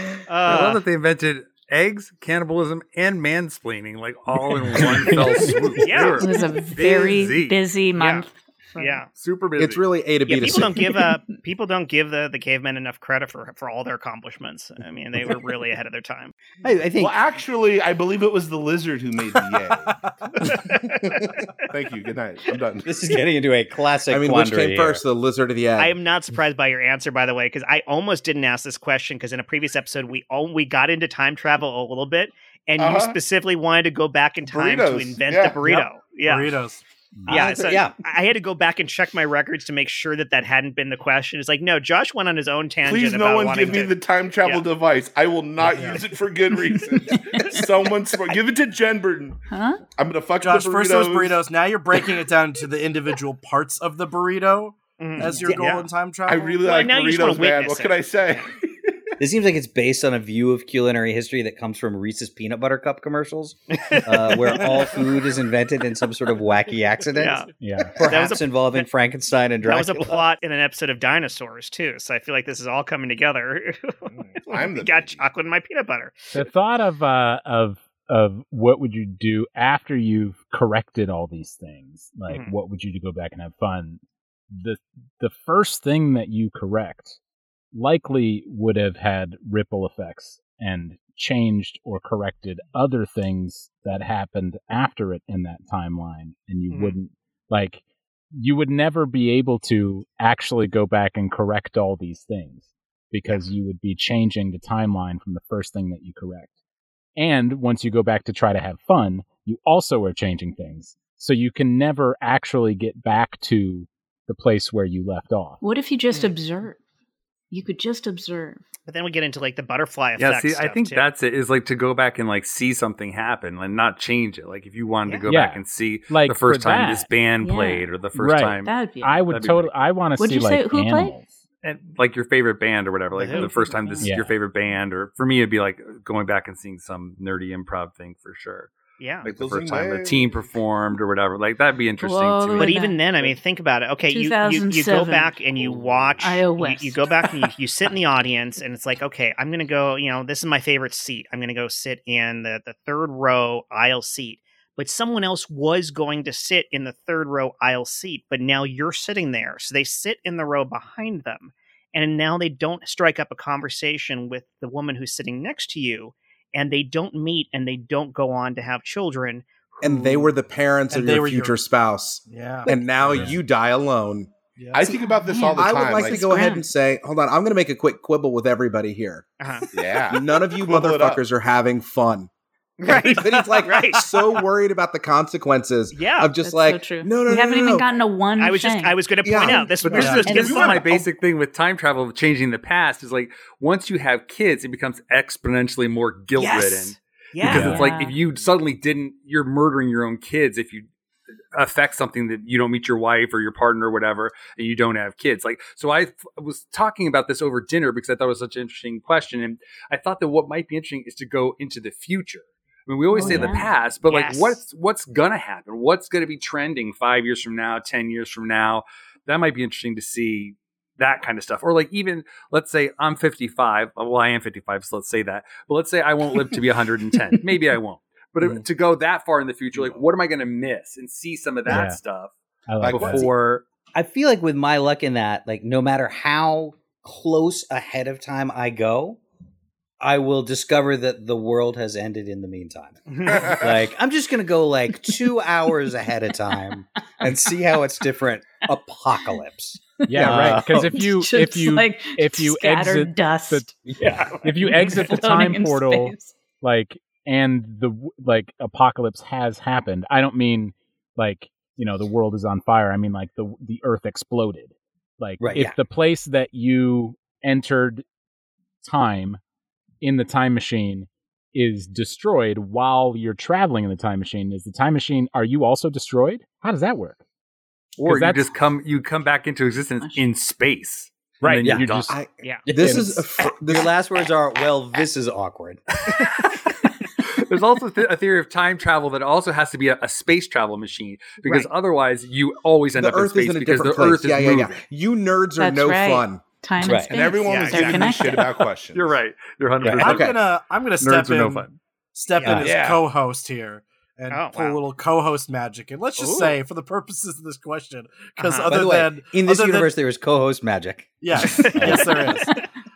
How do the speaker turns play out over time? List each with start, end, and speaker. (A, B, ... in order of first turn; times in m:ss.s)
0:00.2-0:00.8 A
0:00.4-0:07.6 B
0:05.8-0:06.3 A
0:06.2-0:09.0 C
0:08.0-0:09.1 A
0:09.1-0:09.8 B
0:09.6-0:10.9 D
0:10.3-0:16.3 A
0:16.6-0:17.2 E
0:17.0-0:23.0 F
0:22.8-0:25.0 E
0:24.1-0:26.0 D
0:25.8-0:36.5 A
0:32.8-0:33.2 F
0:34.5-0:35.6 F
0:35.6-0:36.8 G
0:37.2-0:37.5 H
0:37.2-0:38.0 E
0:37.3-0:44.6 A
0:42.8-0:49.4 F
0:45.6-0:46.0 G
0:47.1-0:47.6 C
0:49.5-0:49.8 C
0:50.0-0:51.4 F
0:50.4-0:56.6 G
0:55.0-0:55.9 A
0:56.3-0:59.0 F
0:56.6-0:58.4 A
0:59.2-1:10.2 E
1:03.8-1:04.8 A
1:07.1-1:07.5 A
1:07.6-1:08.0 H
1:08.0-1:08.9 A
1:09.6-1:16.5 A
1:14.1-1:15.3 F
1:16.3-1:24.0 H
1:22.3-1:22.5 A
1:24.5-1:27.2 H
1:27.7-1:37.8 H
1:36.7-1:37.0 A
1:38.3-1:46.5 H
1:47.2-1:55.6 H
1:55.6-1:56.8 C
1:57.5-1:58.6 C
1:58.9-2:01.1 A
2:00.2-2:09.7 B
2:05.3-2:07.1 H
2:07.4-2:08.0 C
2:08.1-2:11.4 H
2:08.6-2:09.3 C
2:10.2-2:11.2 C
2:11.6-2:18.7 B
2:13.1-2:13.5 A
2:13.3-2:14.2 C
2:14.0-2:14.3 H
2:19.0-2:19.3 A
2:19.2-2:23.3 B
2:19.3-2:20.5 F
2:22.0-2:23.0 C
2:22.6-2:50.3 A
2:24.1-2:25.3 C
2:25.6-2:26.1 B
2:26.2-2:27.0 C
2:49.8-2:54.3 D
2:50.9-2:51.6 G
2:52.3-2:53.4 G
2:53.1-2:53.4 H
2:54.6-2:54.9 G
2:54.7-2:56.2 F
2:55.0-2:56.7 C
2:55.5-2:59.3 D
2:59.4-2:59.6 A
2:59.7-3:01.2 F
3:00.1-3:02.3 D
3:02.8-3:04.2 A
3:02.9-3:07.9 D
3:05.9-3:06.3 A
3:06.4-3:09.8 C
3:08.4-3:10.8 A
3:09.2-3:11.1 D
3:09.9-3:20.9 B
3:09.9-3:10.3 G
3:16.4-3:17.9 A
3:17.4-3:17.8 H
3:17.5-3:18.2 C
3:21.5-3:52.3 B
3:33.1-3:33.7 C
3:34.1-3:34.6 A
3:49.7-3:50.0 F
3:51.6-3:52.0 H
3:52.7-3:53.3 H
3:52.8-3:53.3 F
3:52.8-3:53.4 B
3:53.1-3:59.2 E
4:00.0-4:11.0 E
4:03.1-4:03.6 A
4:10.0-4:13.8 C
4:10.1-4:13.7 H
4:10.2-4:10.6 D
4:13.8-4:14.4 E
4:14.4-4:28.0 H
4:14.4-4:16.4 C
4:25.4-4:25.8 E
4:28.8-4:29.4 H
4:30.0-4:37.2 H
4:38.0-4:42.1 B
4:38.0-4:38.5 H
4:40.0-4:40.3 C
4:41.4-4:42.2 H
4:41.6-4:41.9 E
4:42.1-4:43.9 D
4:42.6-4:45.8 E
4:47.3-4:54.8 B
4:52.9-4:56.4 D
4:55.6-4:58.6 C
4:56.8-4:57.1 E
4:57.1-4:59.2 F
4:57.4-4:58.3 A
4:58.9-5:00.4 B
4:59.8-5:00.3 E
5:00.0-5:09.9 G
5:00.0-5:00.4 D
5:01.0-5:01.8 B
5:02.4-5:02.7 E
5:02.4-5:03.0 F
5:04.3-5:04.8 A
5:06.2-5:06.6 A
5:08.4-5:08.7 A
5:08.7-5:12.1 E
5:11.2-5:12.6 G
5:11.4-5:12.4 A